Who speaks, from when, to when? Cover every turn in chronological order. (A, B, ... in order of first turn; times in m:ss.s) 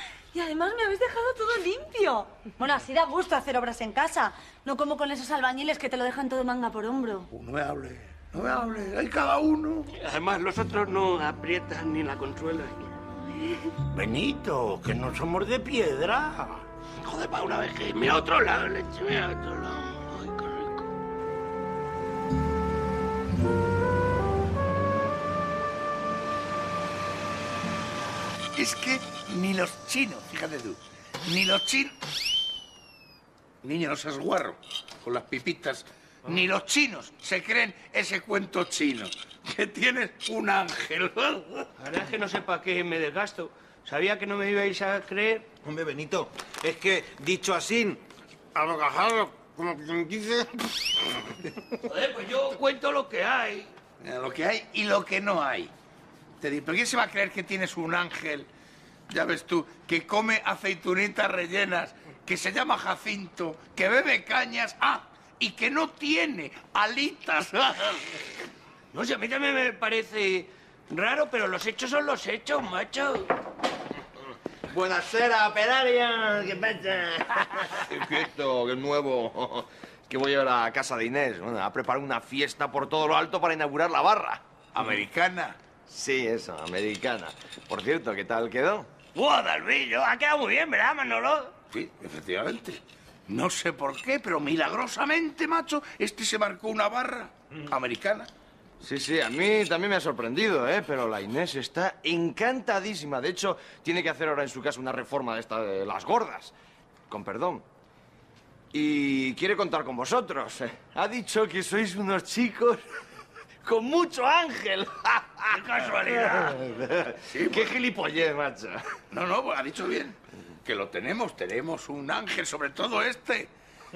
0:00.3-0:07.3 A
0:07.3-0:09.9 B
0:09.9-0:12.9 C
0:13.9-0:16.6 D
0:17.0-0:20.9 C
0:28.6-0:31.9 B
0:33.6-0:41.7 B
0:41.8-0:45.5 C
0:45.6-0:48.0 E
0:48.5-0:50.8 E
0:51.8-0:53.7 C
0:54.0-0:55.7 B
0:56.4-0:58.5 B
0:59.1-1:08.2 B
1:08.9-1:13.3 C
1:14.7-1:24.4 F
1:14.8-1:16.1 E
1:24.7-1:25.6 B
1:25.9-1:28.9 F
1:29.1-1:31.5 C
1:31.7-1:38.3 B
1:38.8-1:46.5 F
1:47.1-1:47.6 F
1:48.7-1:52.8 F
1:53.6-1:55.6 F
1:55.5-1:56.6 C
1:56.1-1:58.9 F
1:57.3-1:57.7 B
1:59.1-2:03.5 B